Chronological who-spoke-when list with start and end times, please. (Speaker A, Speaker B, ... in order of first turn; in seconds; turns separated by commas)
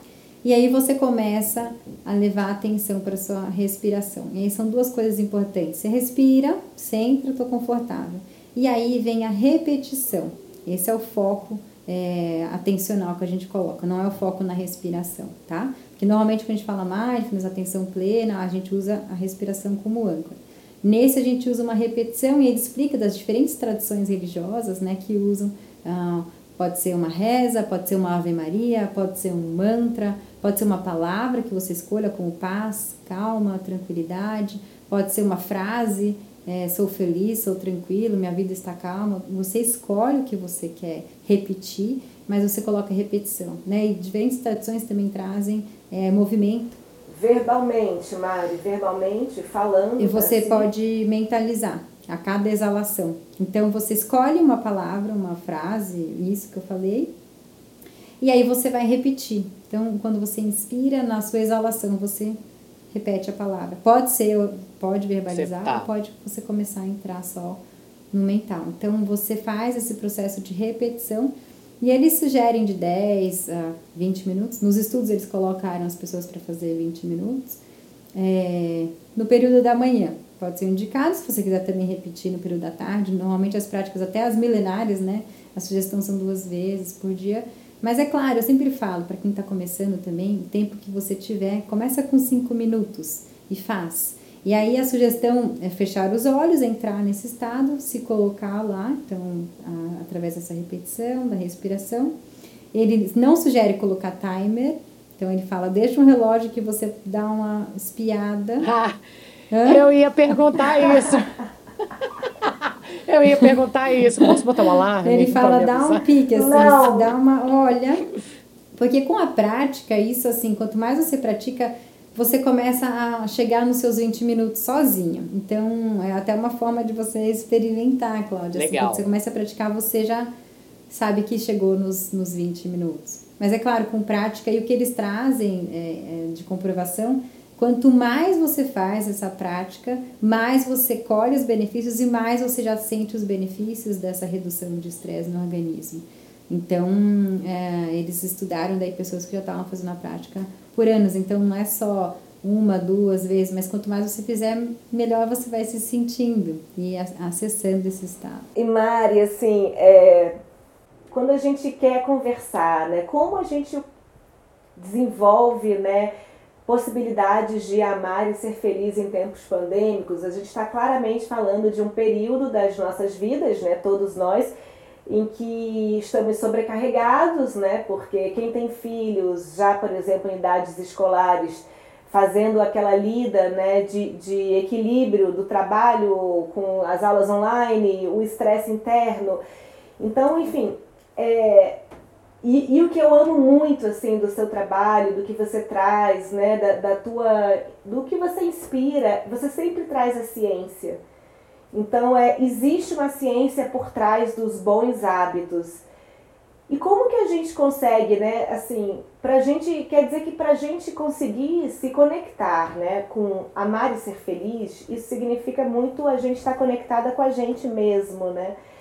Speaker A: 0.4-46.8, Speaker B: 47.1-50.7, Speaker A: 50.0-57.1, Speaker A: 58.2-62.4, Speaker A: 62.9-67.6, Speaker C: 65.3-65.9, Speaker A: 68.1-77.6, Speaker A: 78.1-102.1, Speaker A: 102.7-108.7, Speaker C: 108.6-109.0, Speaker A: 109.5-109.8, Speaker C: 109.6-111.3, Speaker C: 112.4-116.1, Speaker A: 115.0-118.0, Speaker B: 116.3-117.1, Speaker A: 118.7-130.3, Speaker C: 128.5-129.0, Speaker A: 130.9-158.4, Speaker B: 158.6-160.4, Speaker B: 161.1-163.8, Speaker B: 164.8-166.1, Speaker B: 166.7-174.5, Speaker B: 175.1-189.4, Speaker B: 190.0-191.8, Speaker B: 192.4-201.0, Speaker B: 201.7-205.8, Speaker B: 206.7-218.5